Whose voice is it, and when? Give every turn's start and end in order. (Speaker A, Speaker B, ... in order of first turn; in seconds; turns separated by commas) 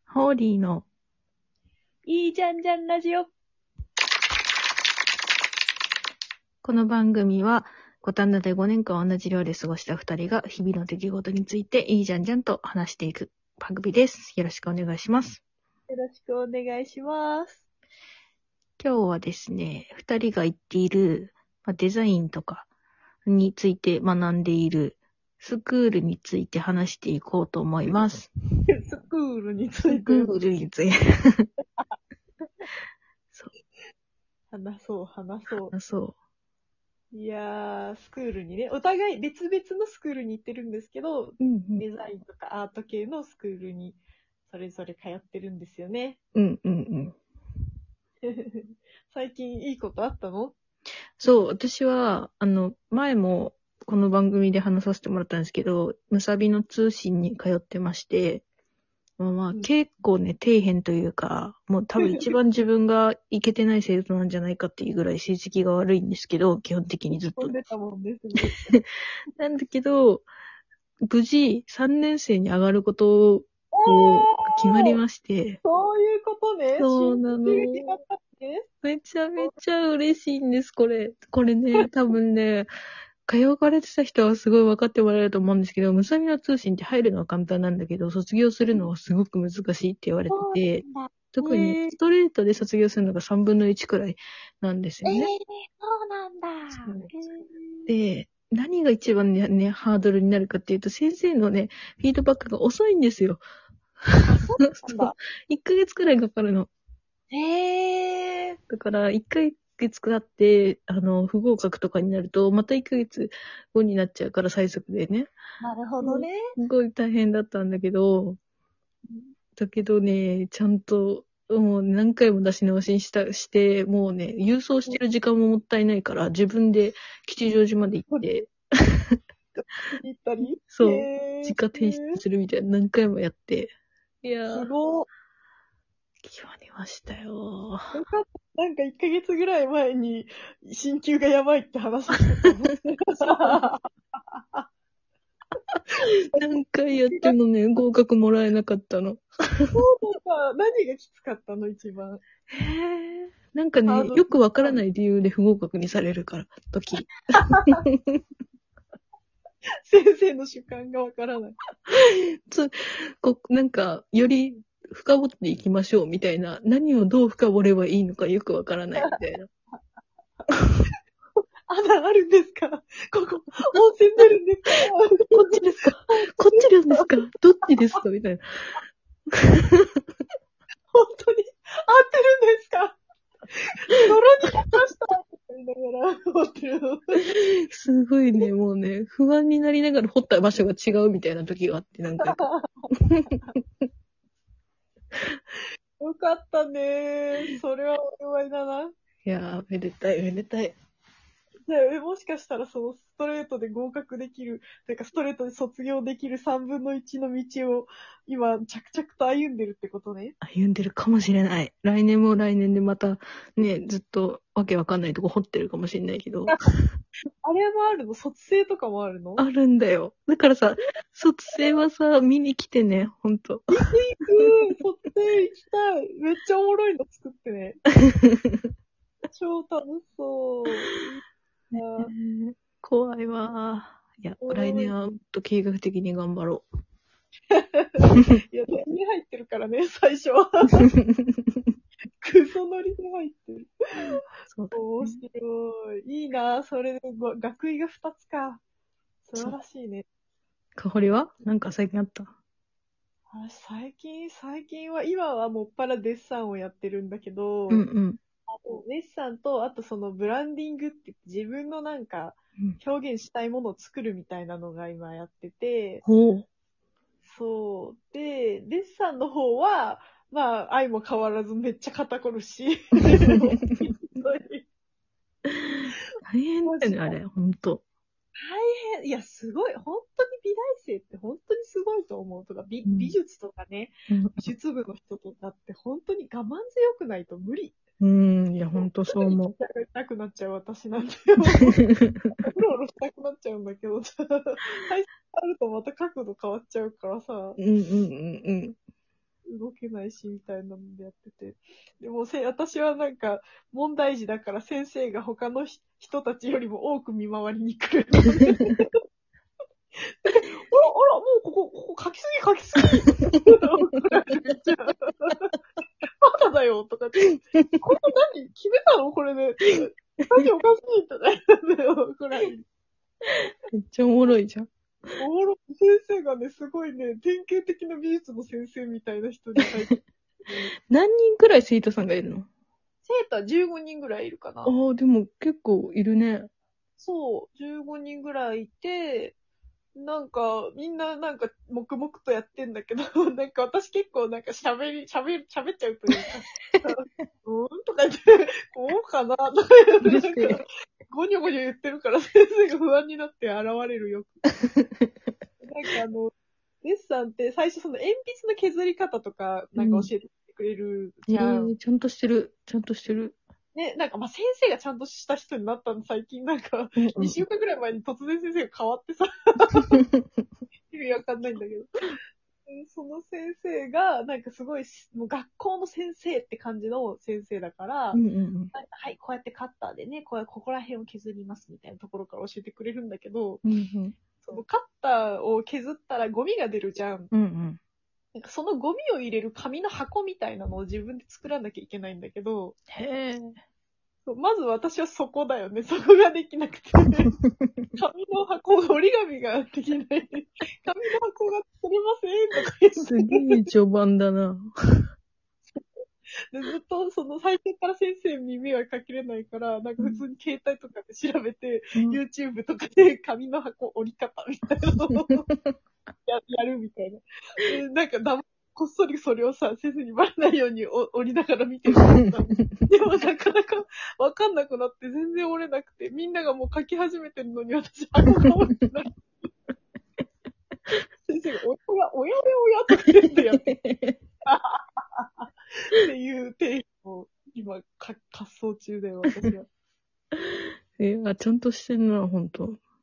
Speaker A: 0.1-0.8, Speaker B: 2.1-3.3, Speaker A: 6.6-15.4, Speaker B: 15.9-17.6, Speaker A: 18.8-22.7, Speaker A: 23.3-28.3, Speaker B: 28.7-30.3, Speaker A: 29.9-31.5, Speaker B: 34.5-35.7, Speaker A: 35.7-36.2, Speaker B: 37.1-46.2, Speaker A: 41.4-41.8, Speaker A: 46.4-47.2, Speaker B: 48.2-50.5, Speaker A: 51.2-58.4, Speaker A: 59.2-67.6, Speaker B: 62.0-62.3, Speaker B: 67.3-68.7, Speaker A: 69.4-70.3, Speaker A: 71.1-75.6, Speaker B: 73.7-75.0, Speaker B: 75.6-78.7, Speaker A: 76.8-78.0, Speaker A: 78.8-82.7, Speaker A: 83.3-95.3, Speaker B: 90.3-92.0, Speaker B: 95.0-97.9, Speaker A: 96.8-97.1, Speaker A: 97.9-103.4, Speaker A: 104.2-106.7, Speaker B: 104.3-105.2, Speaker B: 107.3-108.6, Speaker A: 108.7-115.3, Speaker B: 115.6-116.4, Speaker A: 116.0-118.4, Speaker A: 119.6-129.2, Speaker B: 129.6-132.2, Speaker A: 130.7-133.7, Speaker A: 134.2-134.7, Speaker B: 134.5-135.1, Speaker A: 136.2-137.9, Speaker B: 137.9-144.7, Speaker A: 146.3-149.7, Speaker B: 147.0-147.4, Speaker B: 149.8-152.2, Speaker A: 152.5-158.2, Speaker B: 153.9-154.8, Speaker B: 157.4-157.8, Speaker B: 159.9-161.6, Speaker A: 161.9-169.5, Speaker B: 171.7-177.1, Speaker A: 175.3-178.8, Speaker A: 179.3-180.0, Speaker B: 180.9-183.0, Speaker B: 183.6-187.3, Speaker A: 187.2-192.4, Speaker B: 192.2-193.5, Speaker A: 193.1-193.6, Speaker B: 196.0-198.9, Speaker A: 199.2-200.8, Speaker B: 201.7-210.3, Speaker A: 210.4-216.6, Speaker B: 217.4-219.4, Speaker A: 219.4-223.7, Speaker B: 223.7-227.8, Speaker A: 228.2-228.7, Speaker B: 229.3-231.2, Speaker A: 231.7-236.7, Speaker B: 231.8-232.1, Speaker B: 234.4-234.9, Speaker B: 237.5-240.9, Speaker A: 241.0-241.7, Speaker B: 242.2-243.7, Speaker A: 244.5-245.2, Speaker B: 244.7-248.6, Speaker B: 249.2-250.1, Speaker A: 250.8-252.3, Speaker B: 253.3-257.9, Speaker A: 257.7-258.2, Speaker B: 258.5-266.0, Speaker A: 266.1-266.5, Speaker B: 267.2-274.6, Speaker A: 275.5-277.8, Speaker B: 276.6-277.2, Speaker B: 278.4-287.8, Speaker A: 282.9-283.1, Speaker A: 284.1-284.5, Speaker A: 288.0-289.6, Speaker B: 288.8-297.6, Speaker A: 291.9-292.3, Speaker A: 297.6-298.8, Speaker B: 299.5-309.0, Speaker B: 310.0-315.6, Speaker B: 316.2-322.7, Speaker A: 323.7-324.7, Speaker B: 325.2-330.7, Speaker A: 330.9-332.5, Speaker B: 333.1-334.7, Speaker A: 334.7-336.5, Speaker B: 337.0-339.4, Speaker B: 340.0-354.3, Speaker A: 350.0-350.6, Speaker A: 354.7-355.1, Speaker B: 355.6-356.3, Speaker B: 356.8-361.7, Speaker A: 359.8-360.1, Speaker A: 361.3-363.4, Speaker B: 363.7-370.0, Speaker A: 367.0-367.4, Speaker B: 370.9-371.9, Speaker B: 372.7-378.2, Speaker A: 378.1-378.7, Speaker B: 378.7-383.6, Speaker A: 383.6-384.2, Speaker B: 384.4-387.3, Speaker A: 387.3-387.8, Speaker B: 388.3-392.8, Speaker A: 392.9-393.6, Speaker B: 394.2-397.3, Speaker A: 397.4-397.9, Speaker B: 398.0-403.6, Speaker A: 403.0-404.7, Speaker B: 405.7-406.0, Speaker B: 406.5-415.5, Speaker A: 411.9-412.2, Speaker A: 415.3-415.7, Speaker B: 416.3-429.5, Speaker B: 431.2-433.6, Speaker A: 433.2-434.2, Speaker B: 434.4-439.7, Speaker A: 440.3-442.8